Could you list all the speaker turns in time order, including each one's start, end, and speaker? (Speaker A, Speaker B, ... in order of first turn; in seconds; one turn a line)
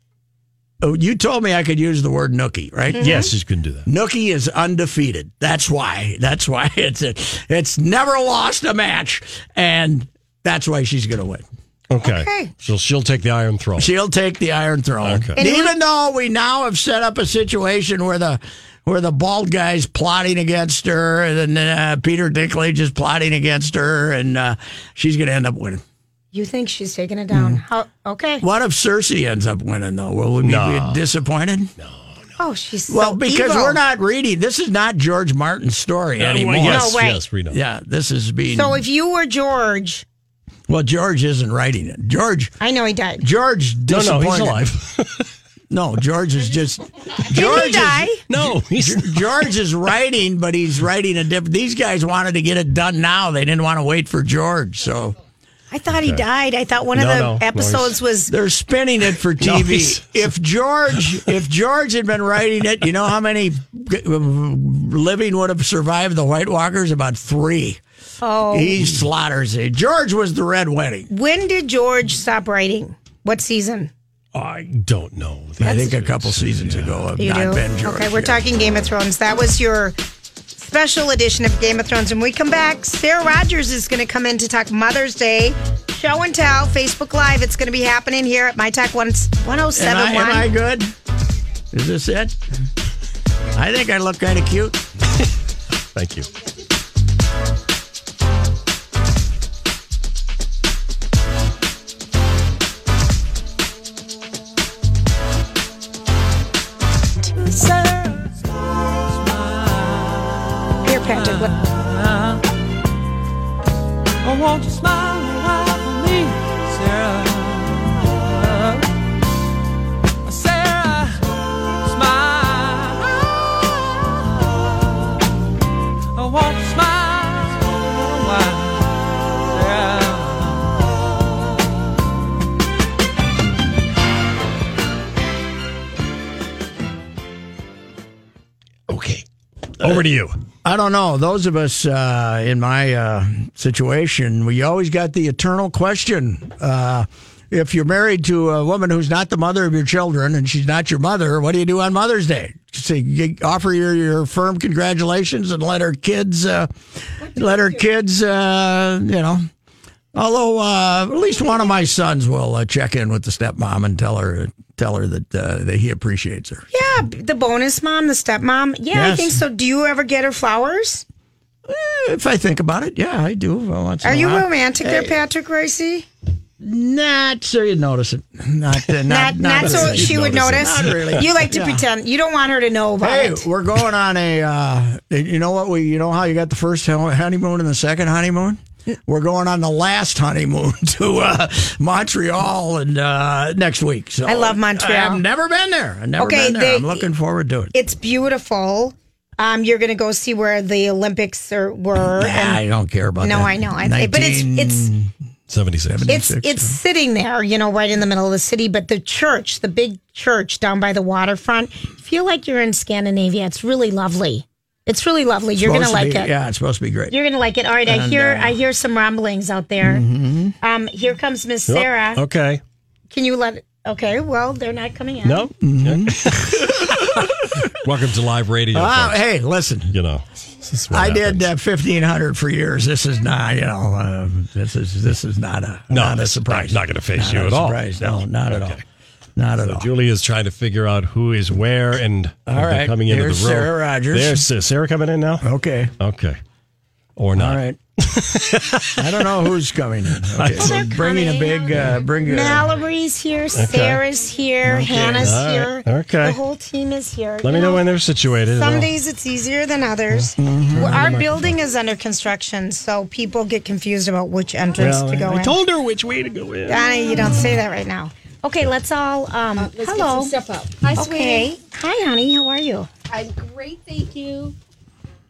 Speaker A: 0.8-3.3
Speaker B: 3.0-3.3
Speaker C: 3.0-3.9
Speaker A: 3.9-11.4
Speaker C: 11.9-13.9
Speaker B: 12.0-12.5
Speaker A: 13.8-25.8
Speaker C: 15.0-15.4
Speaker B: 15.4-15.8
Speaker B: 26.3-28.4
Speaker A: 27.3-27.6
Speaker A: 28.4-31.7
Speaker C: 30.4-31.0
Speaker C: 31.8-32.1
Speaker B: 32.4-33.8
Speaker A: 32.9-38.8
Speaker C: 36.2-37.6
Speaker B: 36.6-37.2
Speaker B: 38.5-40.0
Speaker A: 40.7-42.5
Speaker B: 42.6-43.2
Speaker A: 43.2-44.7
Speaker C: 43.9-45.3
Speaker A: 45.7-55.2
Speaker B: 47.3-48.2
Speaker C: 48.3-49.3
Speaker B: 55.7-58.3
Speaker C: 55.9-56.2
Speaker C: 56.9-58.0
Speaker A: 58.3-67.8
Speaker C: 59.4-60.2
Speaker B: 68.2-68.9
Speaker A: 68.5-71.1
Speaker B: 71.1-73.9
Speaker C: 74.3-77.0
Speaker A: 75.6-78.4
Speaker B: 77.2-80.0
Speaker B: 80.6-90.5
Speaker A: 89.7-90.9
Speaker A: 91.7-92.4
Speaker A: 93.5-94.8
Speaker C: 96.0-96.3
Speaker B: 107.4-107.8
Speaker B: 110.8-111.7
Speaker C: 138.9-139.2
Speaker C: 139.8-140.4
Speaker A: 140.6-159.5
Speaker A: 160.1-166.7
Speaker B: 166.7-171.1
Speaker A: 168.9-169.4
Speaker A: 171.7-175.2
Speaker B: 174.0-176.1
Speaker A: 176.6-181.8
Speaker B: 179.1-183.4
Speaker A: 183.0-197.7
Speaker B: 194.3-195.2
Speaker B: 196.2-197.1
Speaker B: 197.7-202.6
Speaker A: 202.2-205.1
Speaker B: 203.2-204.9
Speaker C: 205.5-206.1
Speaker A: 205.9-206.8
Speaker B: 206.1-216.3
Speaker A: 215.6-217.2
Speaker B: 217.1-220.1
Speaker A: 217.9-218.6
Speaker A: 219.8-220.6
Speaker B: 220.6-222.2
Speaker C: 221.7-222.6
Speaker B: 223.1-225.5
Speaker C: 225.2-229.2
Speaker A: 225.6-227.7
Speaker A: 228.7-230.0
Speaker C: 229.9-231.4
Speaker A: 230.9-238.8
Speaker C: 235.9-238.8
Speaker A: 239.4-239.9
Speaker C: 239.6-245.5
Speaker A: 242.5-244.5
Speaker A: 245.4-245.9
Speaker C: 246.0-246.4
Speaker C: 247.2-249.4
Speaker A: 247.4-247.8
Speaker A: 249.0-252.7
Speaker C: 250.2-250.9
Speaker B: 250.6-257.8
Speaker C: 253.6-254.0
Speaker A: 254.7-255.4
Speaker C: 255.2-256.4
Speaker C: 257.4-258.9
Speaker B: 258.5-265.6
Speaker C: 260.1-261.6
Speaker A: 260.4-261.2
Speaker C: 264.8-267.4
Speaker B: 266.7-270.4
Speaker D: 269.6-271.5
Speaker B: 270.9-272.9
Speaker D: 273.1-274.6